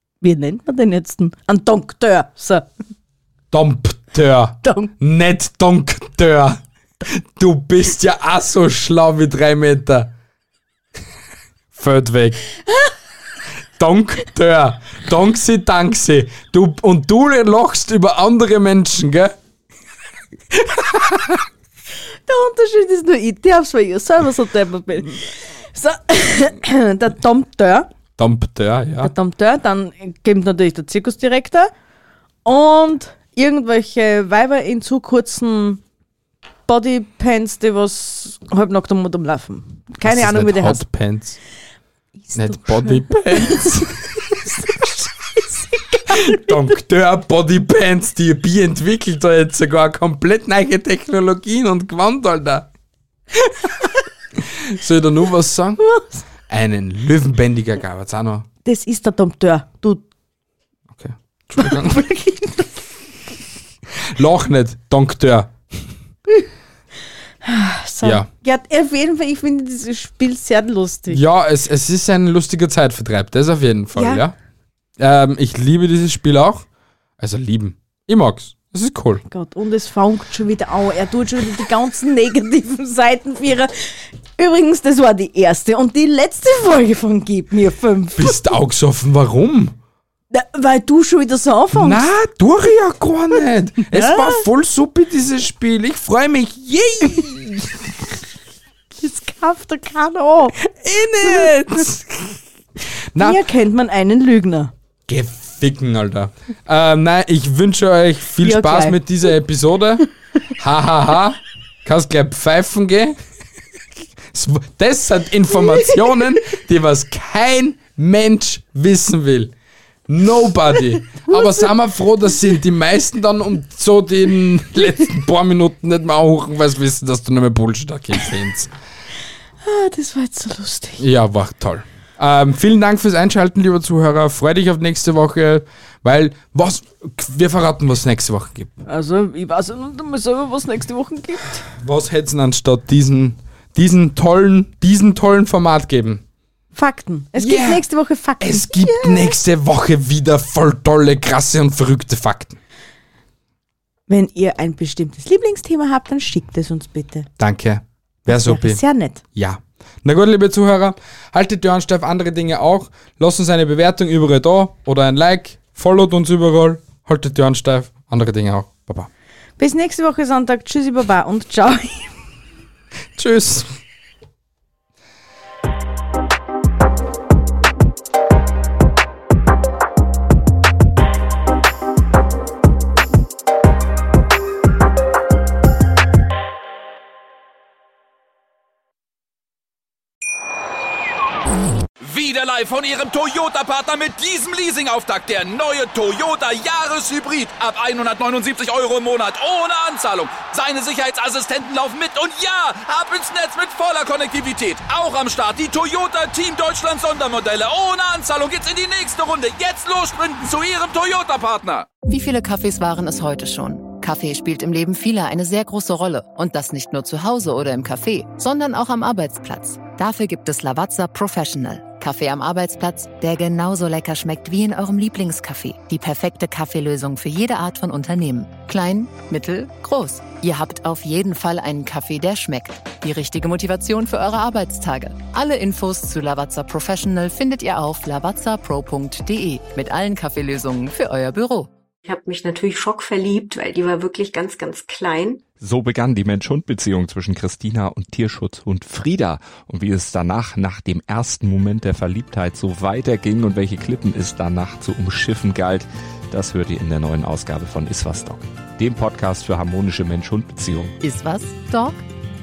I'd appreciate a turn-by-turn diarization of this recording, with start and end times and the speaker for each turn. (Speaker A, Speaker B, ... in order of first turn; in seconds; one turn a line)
Speaker A: 0.2-2.7
Speaker B: 3.5-10.1
Speaker A: 4.6-4.9
Speaker B: 11.7-12.4
Speaker B: 13.8-19.3
Speaker B: 20.5-21.4
Speaker A: 22.3-27.9
Speaker B: 28.2-29.1
Speaker A: 29.0-31.7
Speaker A: 32.5-35.8
Speaker A: 36.7-40.8
Speaker B: 40.0-41.4
Speaker A: 42.2-46.8
Speaker B: 42.3-44.5
Speaker B: 46.1-52.7
Speaker B: 54.5-55.8
Speaker A: 55.8-56.2
Speaker B: 56.5-58.5
Speaker A: 58.6-60.0
Speaker B: 60.9-62.0
Speaker A: 61.6-62.9
Speaker B: 64.0-65.5
Speaker A: 67.4-71.2
Speaker B: 68.0-68.3
Speaker B: 71.1-74.3
Speaker A: 74.0-74.2
Speaker B: 75.0-76.7
Speaker B: 77.2-79.2
Speaker A: 79.2-88.5
Speaker B: 88.2-89.8
Speaker A: 90.3-92.1
Speaker B: 91.8-97.8
Speaker A: 93.9-94.4
Speaker A: 99.0-100.6
Speaker B: 100.6-102.4
Speaker B: 103.1-103.4
Speaker A: 103.2-104.7
Speaker B: 105.1-113.2
Speaker A: 108.4-109.0
Speaker B: 114.3-119.5
Speaker B: 120.1-128.7
Speaker A: 129.6-131.0
Speaker B: 131.0-138.8
Speaker A: 138.9-141.7
Speaker B: 141.7-146.2
Speaker A: 146.7-149.4
Speaker B: 147.3-147.8
Speaker B: 148.4-152.6
Speaker A: 154.1-157.3
Speaker B: 157.4-158.8
Speaker A: 158.3-159.2
Speaker B: 159.3-169.1
Speaker A: 169.6-172.1
Speaker B: 173.2-173.7
Speaker C: 192.0-211.9
Speaker D: 212.1-241.7
Speaker E: 242.1-245.4
Speaker F: 245.6-261.0
Speaker D: 261.0-262.0